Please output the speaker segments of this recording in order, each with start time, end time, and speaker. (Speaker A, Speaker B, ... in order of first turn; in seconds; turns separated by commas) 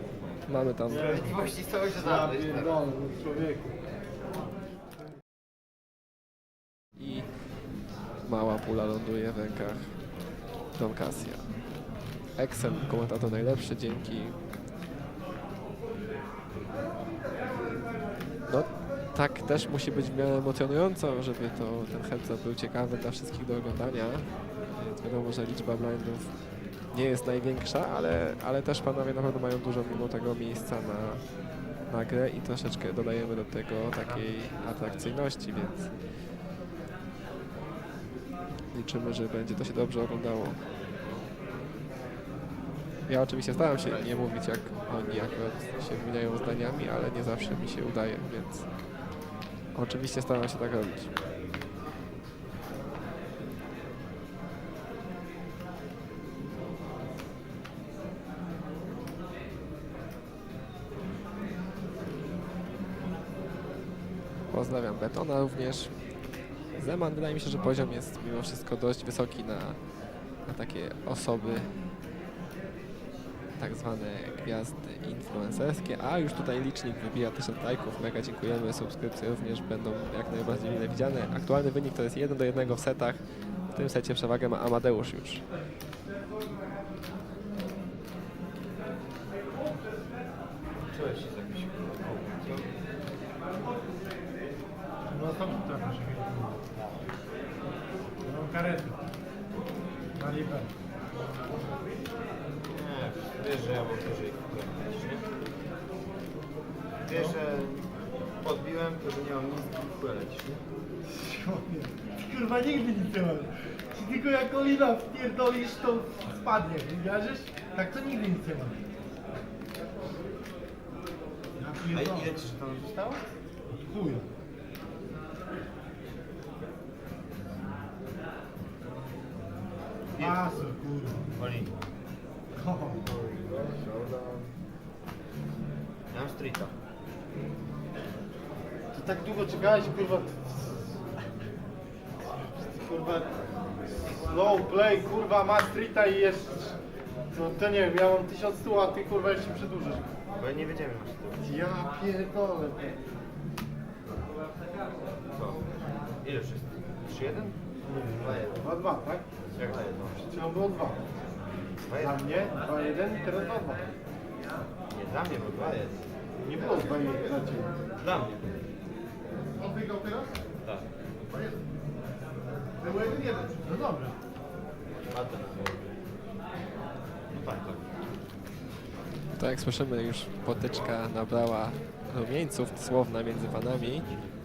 Speaker A: 0.5-1.3, Speaker B: 0.9-1.3, Speaker C: 0.9-2.7, Speaker B: 1.9-3.8, Speaker A: 7.0-7.3, Speaker A: 8.2-10.0, Speaker A: 10.7-11.5, Speaker A: 12.3-14.3, Speaker A: 18.5-26.4, Speaker A: 26.9-31.2, Speaker A: 31.9-35.9, Speaker C: 33.9-35.1, Speaker A: 38.7-40.6, Speaker C: 40.8-41.2, Speaker A: 43.1-48.6, Speaker C: 43.7-44.1, Speaker A: 49.7-51.1, Speaker A: 64.5-65.9, Speaker A: 66.7-69.8, Speaker A: 70.5-71.7, Speaker A: 73.6-83.2, Speaker A: 83.7-85.4, Speaker C: 90.9-92.7, Speaker B: 95.0-96.6, Speaker B: 98.2-99.0, Speaker B: 100.2-100.7, Speaker C: 102.7-105.3, Speaker C: 107.0-107.9, Speaker B: 107.1-107.4, Speaker C: 108.4-110.6, Speaker B: 111.0-118.8, Speaker B: 121.5-122.5, Speaker C: 121.9-123.2, Speaker B: 123.7-124.3, Speaker C: 130.1-130.4, Speaker B: 130.2-131.2, Speaker C: 131.3-131.7, Speaker B: 132.5-133.0, Speaker C: 133.0-134.5, Speaker C: 136.1-136.7, Speaker B: 138.9-140.9, Speaker B: 142.5-143.3, Speaker B: 144.2-146.8, Speaker B: 147.3-150.1, Speaker C: 150.4-151.4, Speaker B: 151.4-152.9, Speaker C: 155.3-155.6, Speaker C: 156.2-157.6, Speaker B: 157.8-159.2, Speaker C: 158.2-158.7, Speaker C: 159.6-160.3, Speaker B: 160.2-161.0, Speaker C: 161.8-162.2, Speaker B: 161.9-163.9, Speaker C: 164.9-166.0, Speaker B: 166.4-167.7, Speaker C: 168.0-168.4, Speaker C: 172.8-173.5, Speaker B: 173.6-174.1, Speaker C: 175.1-175.9, Speaker C: 177.3-177.8, Speaker A: 179.4-184.1